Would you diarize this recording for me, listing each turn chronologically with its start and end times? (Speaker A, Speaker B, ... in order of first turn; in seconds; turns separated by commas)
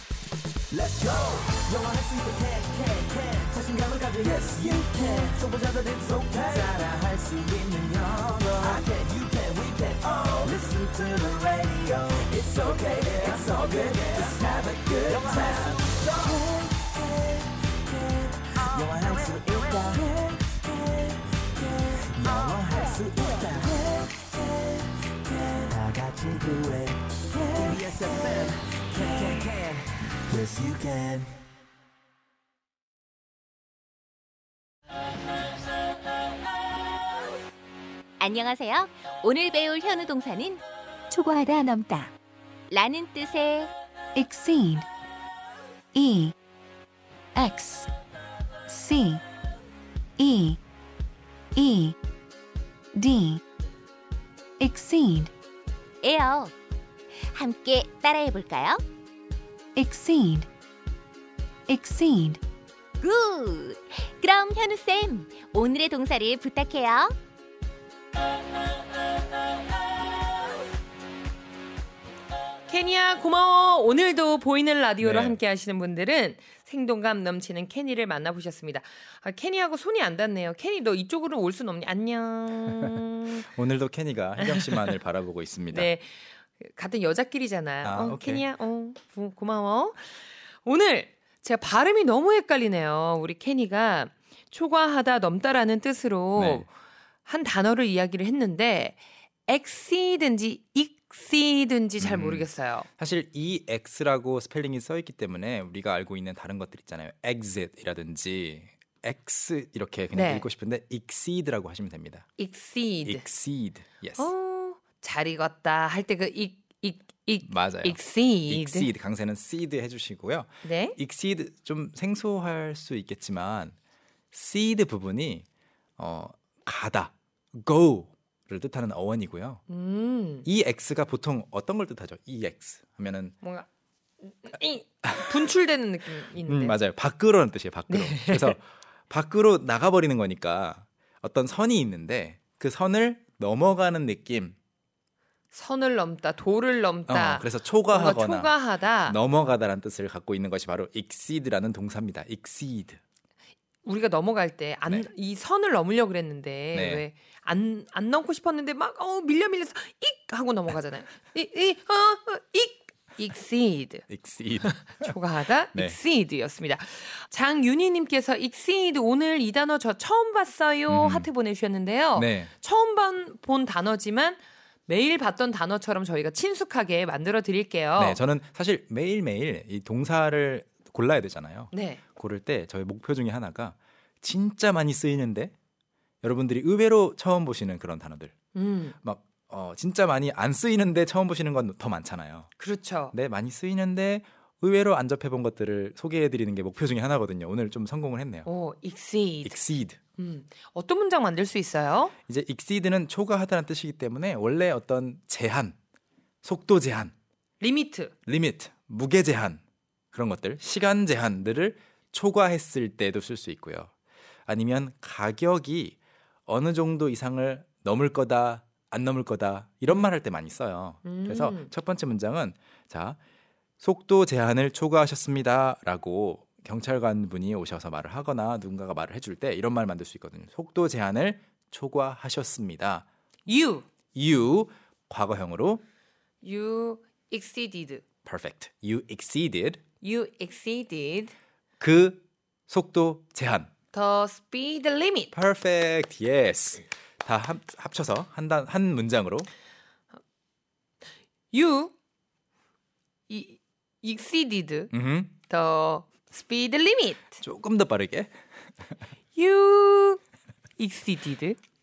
Speaker A: 0.7-17.4, Speaker A: 17.9-24.4, Speaker A: 25.3-31.3, Speaker B: 38.2-40.6, Speaker C: 41.1-42.1, Speaker B: 42.7-43.7, Speaker C: 44.1-44.9, Speaker C: 45.9-46.3, Speaker C: 47.3-47.9, Speaker C: 48.7-49.2, Speaker C: 50.2-50.6, Speaker C: 51.5-52.0, Speaker C: 52.9-53.4, Speaker C: 54.6-55.3, Speaker B: 56.0-56.5, Speaker B: 57.3-58.8, Speaker C: 59.8-60.5, Speaker C: 61.7-62.4, Speaker B: 63.0-67.1, Speaker D: 72.7-83.5, Speaker E: 75.0-75.4, Speaker E: 82.8-85.9, Speaker D: 84.4-84.8, Speaker D: 85.7-96.7, Speaker E: 87.8-88.4, Speaker E: 96.3-96.7, Speaker D: 97.2-102.9, Speaker E: 102.0-102.5, Speaker E: 103.0-112.2, Speaker D: 110.1-110.5, Speaker D: 112.4-113.2, Speaker E: 113.0-114.3, Speaker D: 114.2-118.9, Speaker E: 117.4-123.7, Speaker D: 120.6-121.0, Speaker E: 124.3-125.5, Speaker E: 126.0-129.6, Speaker D: 129.7-130.5, Speaker E: 130.4-133.3, Speaker D: 133.4-133.7, Speaker D: 134.2-136.8, Speaker E: 136.4-144.6, Speaker D: 137.9-138.6, Speaker D: 145.5-149.2, Speaker E: 147.1-153.0, Speaker D: 153.8-164.1, Speaker E: 156.7-157.0, Speaker E: 164.1-165.1, Speaker D: 164.7-178.2, Speaker E: 170.9-171.3, Speaker E: 172.1-172.5, Speaker E: 177.9-185.5, Speaker D: 181.7-182.0, Speaker E: 186.2-188.3, Speaker D: 188.5-188.9, Speaker E: 189.0-192.5, Speaker D: 192.6-193.1, Speaker E: 193.1-198.5, Speaker D: 198.4-199.6, Speaker E: 199.4-200.0, Speaker D: 200.2-202.1, Speaker E: 202.3-205.8, Speaker E: 206.4-207.1, Speaker D: 207.6-208.1, Speaker E: 208.2-209.6, Speaker E: 210.1-213.9, Speaker E: 214.5-223.2, Speaker D: 221.0-221.7, Speaker E: 223.8-233.0, Speaker D: 233.5-233.8, Speaker E: 234.1-235.8, Speaker D: 236.4-238.0, Speaker E: 238.2-239.8, Speaker D: 240.0-241.3, Speaker E: 241.8-243.7, Speaker D: 243.9-245.3, Speaker E: 245.3-249.5, Speaker D: 251.5-251.9, Speaker D: 253.3-254.9, Speaker E: 254.9-255.3, Speaker D: 255.4-257.4, Speaker E: 257.4-258.3, Speaker D: 259.3-260.2, Speaker D: 260.8-261.6